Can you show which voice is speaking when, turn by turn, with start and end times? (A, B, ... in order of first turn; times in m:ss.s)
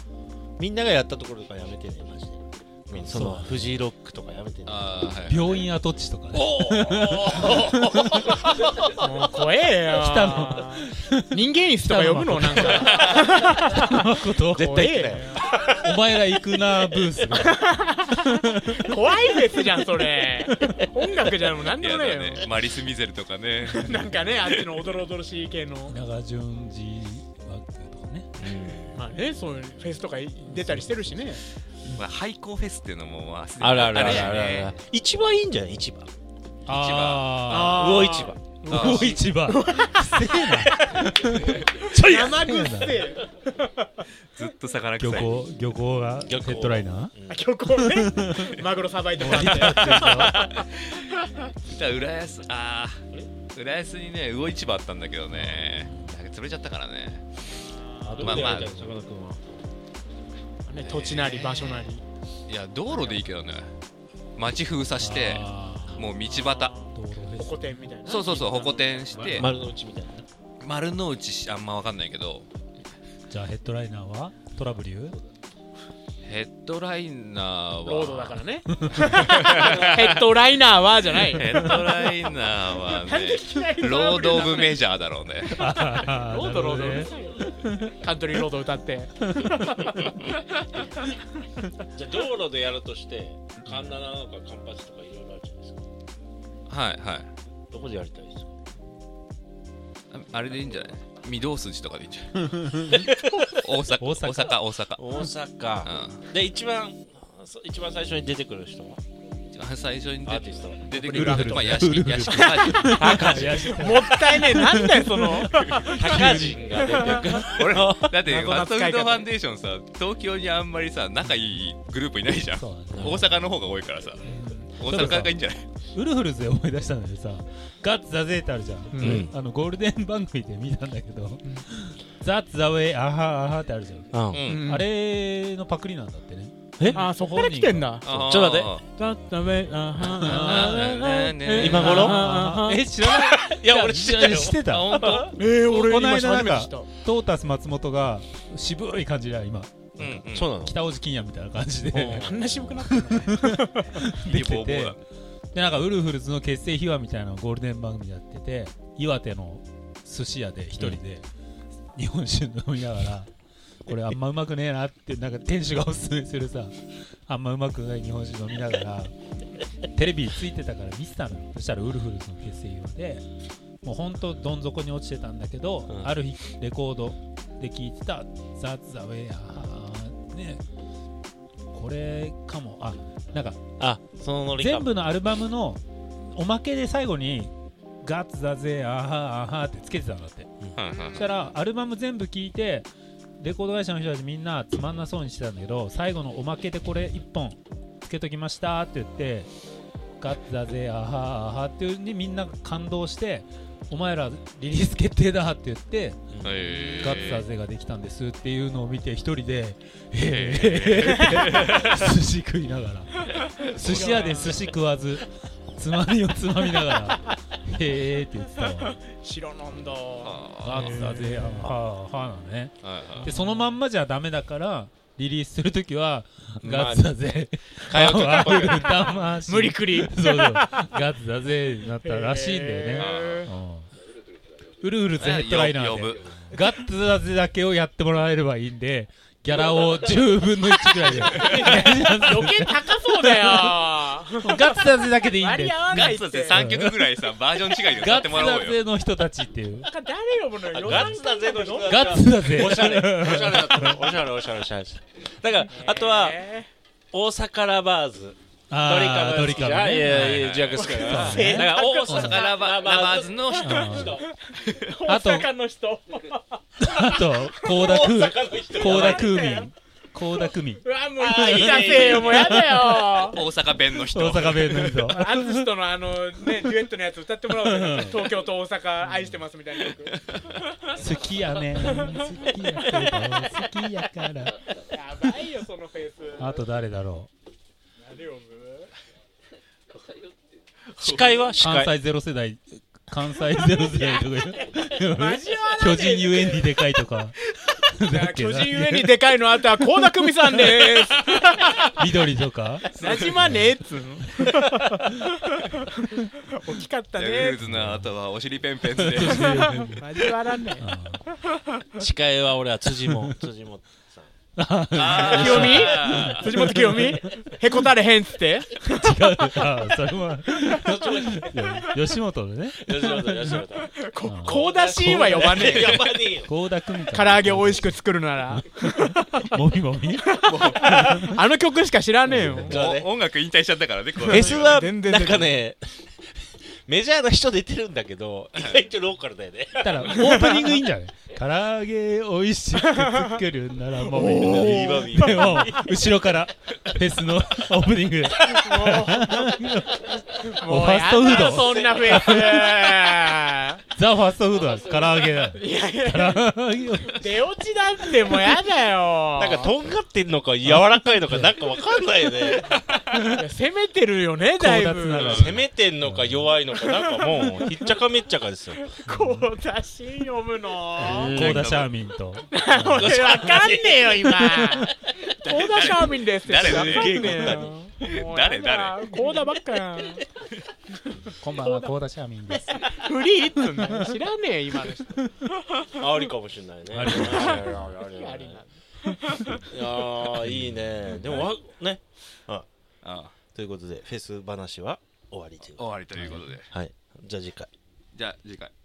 0:00.6-0:05.1 A
0:03.0-0:03.6 B
0:04.6-0:05.5 C
0:05.2-0:08.3 B
0:06.3-0:08.7 A
0:08.7-0:15.5 D
0:09.9-0:13.0 B
0:12.9-0:13.2 C
0:13.7-0:14.9 B
0:14.5-0:15.6 A
0:15.7-0:19.0 B
0:17.4-0:22.5 D
0:20.4-0:20.8 B
0:21.8-0:24.6 C
0:23.7-0:26.0 D
0:25.9-0:28.3 B
0:28.4-0:29.0 A
0:28.9-0:31.4 D
0:30.5-0:31.0 B
0:31.9-0:34.8 C
0:33.6-0:36.1 A
0:33.9-0:34.3 D
0:34.1-0:34.4 B
0:36.6-0:38.0 B
0:36.7-0:37.8 C
0:37.4-0:44.0 D
0:37.6-0:38.4 A
0:38.7-0:43.1 B
0:38.7-0:39.2 C
0:44.3-0:45.4 C
0:45.0-0:47.1 B
0:46.2-0:47.5 A
0:47.3-0:50.7 D
0:47.8-0:48.6 B
0:49.2-0:50.4 B
0:49.5-0:51.0 C
0:51.7-0:57.2 C
0:55.3-0:56.1 B
0:57.6-0:58.5 D
0:58.0-0:59.4 A
0:58.2-0:58.9 C
1:00.6-1:02.0 D
1:00.8-1:01.9 C
1:02.5-1:03.7 C
1:02.9-1:03.2 D
1:04.4-1:06.7 C
1:05.0-1:06.1 B
1:06.2-1:09.4 D
1:06.9-1:07.8 B
1:08.0-1:09.5 C
1:09.1-1:09.5 B
1:09.2-1:10.2 A
1:10.6-1:12.4 C
1:13.3-1:15.2 B
1:16.2-1:18.4 C
1:17.8-1:22.0 D
1:18.7-1:19.2 B
1:19.1-1:20.0 C
1:21.3-1:25.6 C
1:21.4-1:21.8 B
1:22.8-1:24.8 D
1:25.5-1:27.9 B
1:25.6-1:30.8 D
1:29.3-1:29.9 B
1:31.9-1:35.8 A
1:36.7-1:37.3 C
1:37.7-1:38.5 A
1:40.1-1:45.2 C
1:42.5-1:43.1 B
1:42.9-1:43.4 A
1:44.0-1:44.6 B
1:45.0-1:49.0 A
1:45.8-1:46.2 C
1:49.5-1:53.8 C
1:50.2-1:50.9 A
1:50.9-1:57.4 D
1:51.0-1:56.6 B
1:53.0-1:53.5 A
1:55.4-1:56.5 C
1:56.0-1:58.2 A
1:57.4-2:05.7 C
1:58.2-1:59.3 D
2:02.5-2:03.3 B
2:03.0-2:03.2 A
2:04.2-2:04.8 D
2:04.8-2:18.0 B
2:08.9-2:09.3 D
2:09.0-2:09.3 A
2:14.1-2:14.4 A
2:14.3-2:14.6 C
2:14.4-2:14.9 D
2:16.9-2:18.1 D
2:18.0-2:18.8 C
2:18.1-2:18.8 A
2:18.9-2:23.2 D
2:20.1-2:35.0 B
2:20.1-2:22.2 C
2:21.6-2:22.2 A
2:23.2-2:25.2 A
2:24.5-2:25.3 C
2:25.0-2:26.9 D
2:30.0-2:30.5 C
2:30.3-2:30.7 A
2:31.9-2:32.7 A
2:32.0-2:33.9 D
2:34.2-2:35.0 C
2:35.5-2:41.2 B
2:41.9-2:43.3 B
2:43.8-2:49.1 B
2:49.8-2:53.2 B
2:53.8-3:00.6 B
2:55.9-2:56.1 A
3:01.7-3:03.6 B
3:03.8-3:04.9 A
3:04.6-3:10.5 B
3:10.8-3:11.2 C
3:10.8-3:11.3 D
3:11.1-3:12.9 B
3:13.4-3:19.5 B
3:20.2-3:26.2 B
3:26.3-3:26.6 A
3:26.4-3:27.4 C
3:26.7-3:27.2 D
3:27.0-3:39.0 B
3:30.2-3:32.0 C
3:33.3-3:34.7 D
3:37.0-3:37.3 D
3:38.7-3:41.7 D
3:40.2-3:41.0 C
3:40.6-3:53.9 B
3:42.8-3:43.3 C
3:43.2-3:43.8 D
3:46.6-3:47.2 A
3:47.8-3:49.0 A
3:48.6-3:48.8 D
3:49.4-3:50.9 D
3:52.0-3:53.5 D
3:53.0-3:53.4 C
3:54.8-4:03.7 B
3:55.2-3:56.3 C
4:01.2-4:06.7 D
4:01.3-4:01.6 C
4:04.4-4:07.0 B
4:05.9-4:08.8 C
4:07.9-4:09.9 B
4:09.8-4:12.2 D
4:10.7-4:16.4 A
4:11.8-4:14.1 B
4:15.7-4:16.7 D
4:17.1-4:24.3 A
4:18.7-4:22.4 B
4:20.0-4:24.2 C
4:20.8-4:22.4 D
4:23.6-4:24.2 B
4:24.5-4:28.0 D
4:25.0-4:25.5 B
4:26.8-4:33.0 B
4:27.6-4:29.4 A
4:28.8-4:29.7 D
4:30.8-4:33.4 D
4:31.2-4:32.5 A
4:33.2-4:35.0 C
4:34.1-4:35.7 B
4:34.9-4:40.2 D
4:37.6-4:38.3 B
4:39.1-4:39.4 B
4:40.9-4:44.6 B
4:41.8-4:43.4 D
4:44.8-4:46.6 D
4:46.4-4:47.3 B
4:48.0-4:48.9 D
4:51.0-4:51.9 A
4:51.0-4:51.4 C
4:51.6-4:57.3 B
4:53.9-4:54.2 D
4:55.1-4:56.8 D
4:57.6-5:02.0 D
4:57.9-4:59.2 B
5:00.5-5:00.8 B
5:01.9-5:02.9 B
5:02.9-5:07.6 D
5:03.0-5:03.3 C
5:03.4-5:03.7 B
5:07.2-5:09.8 C
5:07.6-5:08.1 B
5:08.9-5:10.2 B
5:09.2-5:11.8 D
5:10.8-5:11.2 B
5:12.0-5:14.3 A
5:12.9-5:13.4 B
5:14.6-5:17.2 B
5:14.9-5:16.7 C
5:15.1-5:19.7 D
5:18.9-5:23.6 B
5:20.8-5:21.7 A
5:22.8-5:26.5 A
5:23.8-5:26.0 D
5:24.2-5:28.0 B
5:25.6-5:26.1 C
5:27.1-5:29.5 D
5:28.6-5:31.4 B
5:30.3-5:32.8 D
5:30.5-5:31.0 C
5:32.6-5:33.1 A
5:32.7-5:34.8 C
5:34.2-5:40.3 A
5:34.3-5:35.6 D
5:39.8-5:52.9 B
5:40.1-5:40.7 D
5:42.9-5:43.3 D
5:44.0-5:45.7 D
5:44.2-5:45.9 A
5:48.4-5:53.8 D
5:53.9-5:57.3 B
5:54.7-5:59.7 D
5:59.4-6:02.8 A
6:00.6-6:01.5 B
6:03.1-6:03.4 B
6:03.3-6:05.4 D
6:04.6-6:06.5 B
6:05.2-6:05.6 C
6:05.2-6:08.8 A
6:06.7-6:08.0 D
6:08.8-6:11.5 D
6:09.1-6:09.4 B
6:11.0-6:13.4 B
6:11.0-6:11.8 A
6:11.5-6:11.9 C
6:12.5-6:20.2 D
6:13.0-6:14.6 A
6:14.3-6:14.9 B
6:15.4-6:19.1 C
6:16.6-6:17.7 A
6:21.2-6:21.9 D
6:21.4-6:22.8 B
6:22.7-6:25.9 D
6:23.6-6:24.0 B
6:26.0-6:28.6 A
6:26.9-6:27.6 B
6:27.0-6:29.7 D
6:29.7-6:32.6 A
6:30.4-6:31.3 B
6:33.0-6:33.3 C
6:33.5-6:35.9 A
6:35.7-6:36.7 C
6:36.1-6:36.5 B
6:36.7-6:37.7 A
6:38.1-6:38.7 C